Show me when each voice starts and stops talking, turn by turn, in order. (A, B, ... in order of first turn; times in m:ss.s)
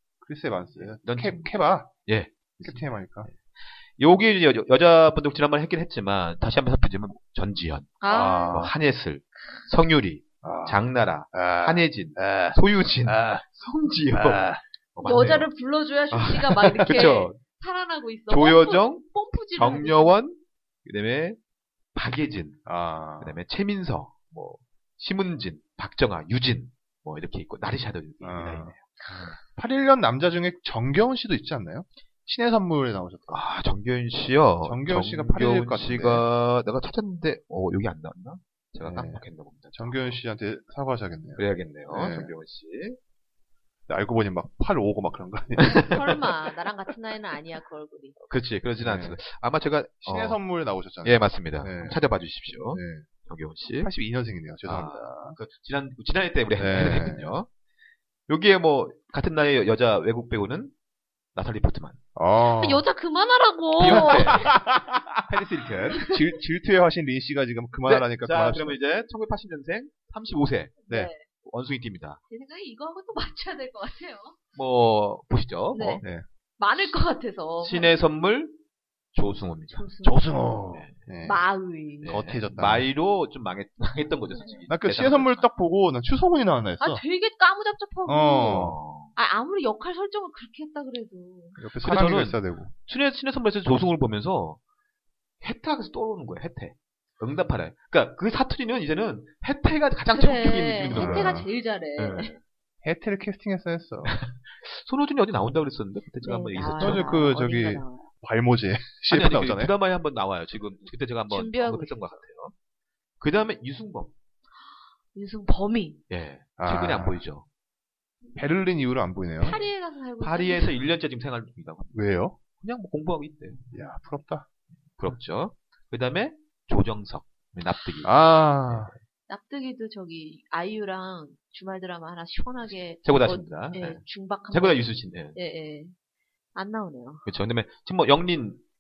0:00.2-0:01.9 A
0:00.8-0:15.5 B
0:02.6-0:03.3 A
0:08.0-0:08.7 C
0:08.1-0:08.7 A
0:10.4-0:13.4 A
0:14.1-0:14.6 A
0:15.0-0:20.2 C
0:16.1-0:17.4 B
0:18.3-0:21.4 B
0:22.0-0:22.6 B
0:22.7-0:23.4 A
0:23.2-0:29.3 B
0:28.2-0:33.5 A
0:33.3-0:40.2 B
0:34.6-0:36.3 A
0:38.8-0:39.2 A
0:39.8-0:42.3 A
0:41.4-0:43.0 B
0:43.9-0:46.2 A
0:45.6-0:46.0 B
0:45.8-0:48.2 C
0:48.3-0:50.4 B
0:48.8-0:49.2 A
0:50.0-0:52.0 A
0:51.0-0:53.9 B
0:52.7-0:53.1 A
0:53.8-0:55.4 A
0:54.6-0:57.5 B
0:56.6-0:57.4 A
0:58.3-1:00.7 B
1:01.4-1:02.0 B
1:02.2-1:02.8 A
1:02.5-1:04.5 C
1:03.8-1:06.1 B
1:03.8-1:05.0 A
1:05.9-1:06.2 C
1:06.0-1:08.8 A
1:07.9-1:10.8 B
1:10.9-1:11.2 C
1:11.4-1:12.2 B
1:12.3-1:14.4 C
1:14.6-1:16.0 B
1:15.7-1:16.0 C
1:16.6-1:17.9 C
1:17.6-1:18.6 B
1:19.1-1:19.9 B
1:19.7-1:20.3 C
1:20.0-1:21.4 A
1:21.2-1:22.2 C
1:22.0-1:25.5 B
1:22.1-1:22.9 A
1:24.7-1:27.0 A
1:26.8-1:28.6 C
1:28.1-1:28.8 A
1:28.4-1:29.1 B
1:29.2-1:31.6 C
1:31.6-1:32.7 A
1:31.8-1:34.6 B
1:35.4-1:41.5 B
1:40.1-1:42.3 C
1:40.9-1:41.5 A
1:42.0-1:42.4 B
1:42.8-1:44.1 A
1:44.0-1:47.2 B
1:46.2-1:48.1 C
1:46.8-1:49.7 A
1:49.1-1:52.5 B
1:51.3-1:52.0 C
1:53.2-1:54.1 B
1:55.1-1:56.0 C
1:56.1-1:57.4 B
1:56.6-1:57.2 A
1:58.4-1:59.6 A
1:59.4-2:00.8 C
2:00.2-2:02.0 B
2:01.9-2:02.4 A
2:02.5-2:03.7 B
2:03.7-2:04.5 A
2:05.0-2:08.9 B
2:08.0-2:08.9 A
2:09.3-2:16.0 C
2:13.0-2:15.4 B
2:16.6-2:17.2 C
2:17.3-2:18.6 B